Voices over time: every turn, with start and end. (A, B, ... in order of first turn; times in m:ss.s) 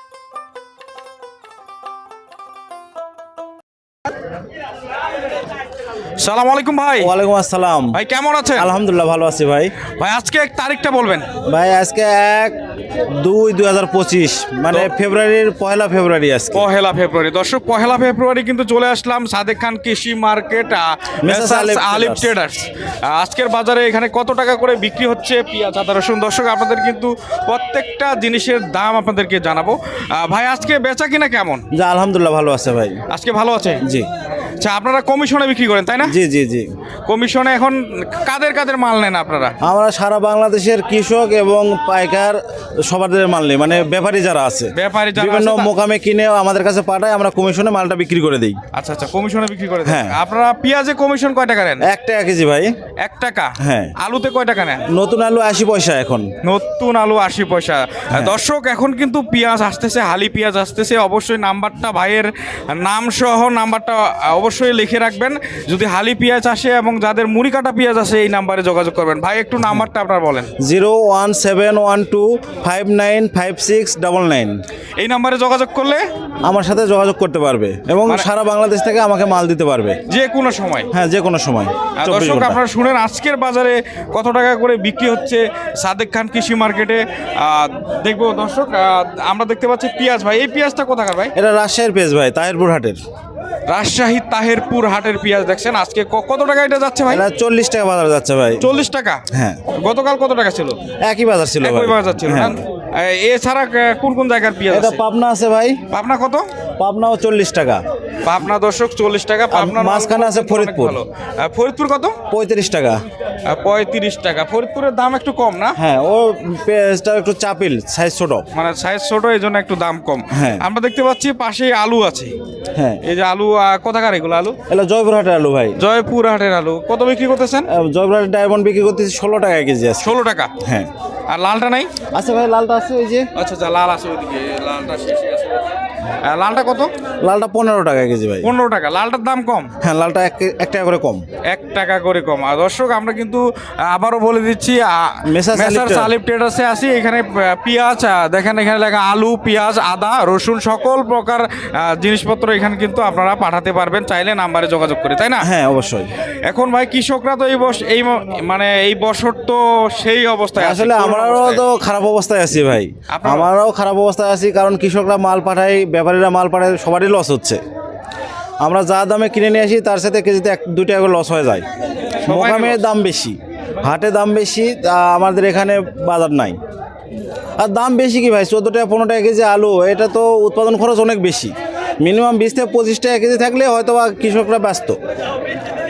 0:06.2-0:07.1 A
0:07.0-0:08.0 B
0:07.9-0:08.7 A
0:08.6-0:09.7 B
0:09.9-0:11.3 A
0:11.5-0:12.6 B
0:13.1-0:16.6 B
0:16.5-0:31.6 A
0:21.2-0:22.3 B
0:31.7-0:33.0 B
0:33.1-0:33.8 A
0:34.6-0:36.2 A
0:36.0-0:36.7 B
0:37.1-0:39.6 A
0:39.6-0:48.6 B
0:44.8-0:45.7 A
0:48.7-0:51.9 A
0:49.9-0:50.2 B
0:51.8-0:52.7 B
0:53.0-0:54.8 A
0:53.6-0:53.9 B
0:54.9-0:56.3 B
0:56.4-1:10.5 A
1:10.6-1:14.6 B
1:15.0-1:16.0 A
1:16.4-1:20.0 B
1:20.1-1:20.9 A
1:20.9-1:22.6 B
1:22.0-1:31.4 A
1:31.4-1:33.0 B
1:33.7-1:37.2 A
1:37.1-1:38.6 B
1:38.6-1:39.2 A
1:39.3-1:39.6 B
1:39.7-1:40.8 A
1:41.0-1:42.6 B
1:41.6-1:45.0 A
1:44.7-1:45.8 B
1:45.9-1:46.5 A
1:46.8-1:47.8 B
1:48.2-1:52.2 A
1:49.5-1:51.0 B
1:52.3-1:53.0 B
1:53.4-1:55.8 A
1:55.8-1:58.5 B
1:58.5-2:02.3 A
2:00.4-2:00.6 B
2:02.8-2:03.0 B
2:03.0-2:04.6 A
2:04.7-2:05.8 B
2:05.8-2:07.7 A
2:07.7-2:10.1 B
2:10.0-2:10.5 A
2:10.6-2:10.9 B
2:11.3-2:11.9 A
2:12.1-2:13.3 B
2:13.4-2:15.6 A
2:16.2-2:16.9 A
2:17.2-2:18.5 B
2:18.4-2:19.7 A
2:19.8-2:21.2 B
2:21.5-2:35.5 A
2:25.3-2:26.1 B
2:35.4-2:36.1 B
2:36.4-2:41.6 A
2:40.6-2:47.6 B
2:43.1-2:43.5 A
2:48.6-2:51.7 B
2:52.2-2:52.8 A
2:52.2-2:56.6 B
2:57.6-3:05.0 B